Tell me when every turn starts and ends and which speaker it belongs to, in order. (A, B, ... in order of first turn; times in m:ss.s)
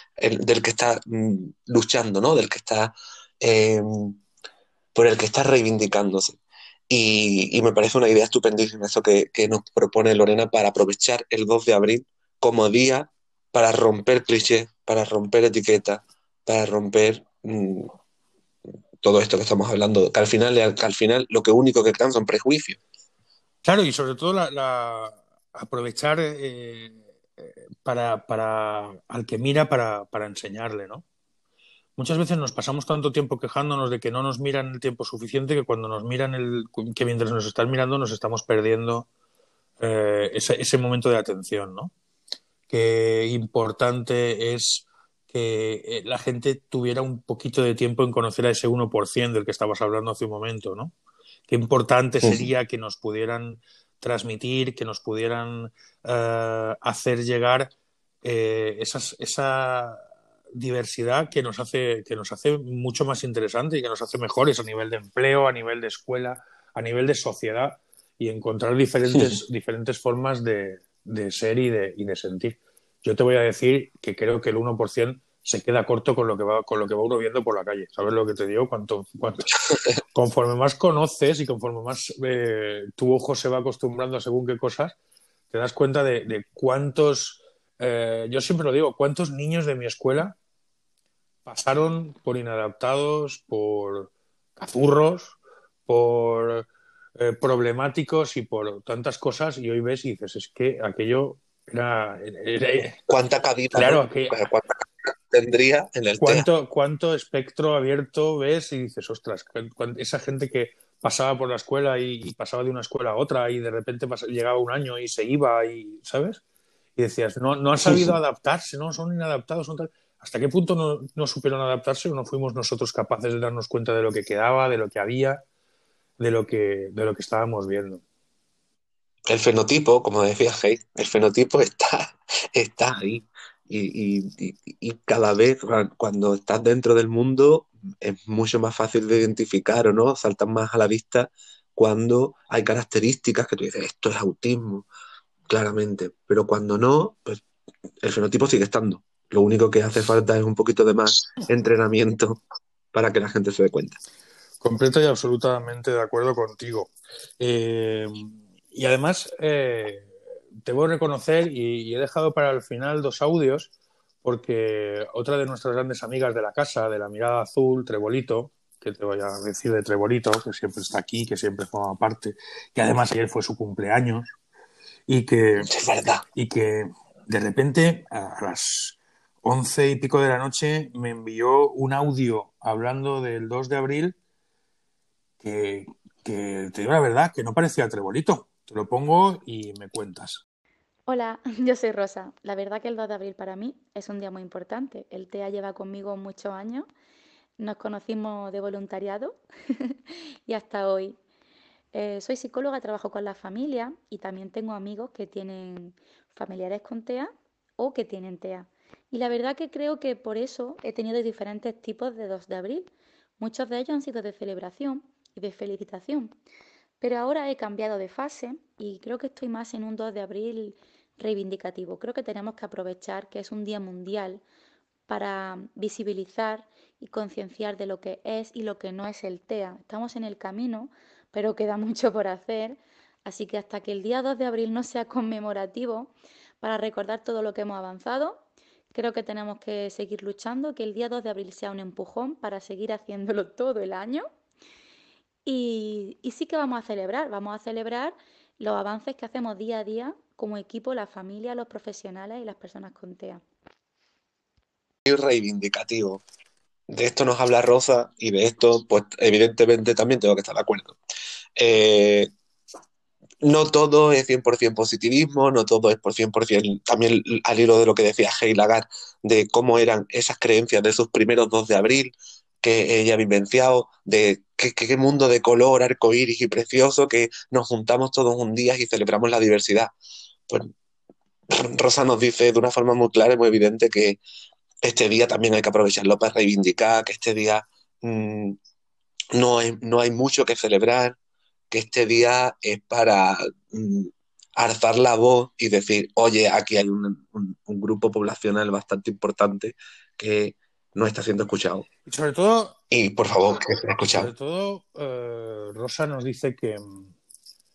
0:00.2-0:04.2 A
0:04.9-0:06.4 A
0:06.9-0:17.9 A
0:19.0-0:22.8 A
0:23.6-0:31.0 B
0:32.0-0:39.1 B
0:39.8-0:41.9 B
0:42.7-0:50.9 B
0:51.5-0:57.7 B
0:58.2-1:00.0 B
1:00.5-1:19.6 B
1:20.1-1:25.0 B
1:25.5-1:30.3 B
1:31.4-1:35.4 B
1:35.9-1:36.6 B
1:37.2-1:43.0 B
1:43.1-1:46.4 A
1:43.7-1:44.4 B
1:46.2-1:56.4 B
1:57.0-2:05.4 B
1:57.8-1:58.1 A
2:06.2-2:08.0 B
2:09.3-2:24.8 A
2:25.5-2:27.4 A
2:28.0-2:32.4 A
2:32.9-2:34.0 A
2:34.6-2:40.1 B
2:40.6-2:43.7 B
2:44.2-2:54.3 B
2:55.1-2:55.7 B
2:55.6-2:56.2 A
2:56.3-3:04.2 B
3:05.4-3:10.4 B
3:11.1-3:16.9 C
3:17.6-3:19.9 C
3:20.5-3:21.2 C
3:21.9-3:36.3 C
3:37.0-3:44.4 C
3:45.1-3:58.4 C
3:58.9-4:04.3 C
4:05.4-4:13.4 C
4:15.0-4:16.2 A
4:16.9-4:21.0 A
4:21.6-4:22.3 A
4:23.4-4:39.9 A
4:41.5-4:44.2 A
4:44.8-4:48.6 A
4:49.3-4:51.2 A
4:51.7-5:01.9 A
5:02.0-5:02.8 B
5:02.9-5:04.3 A
5:04.1-5:07.1 B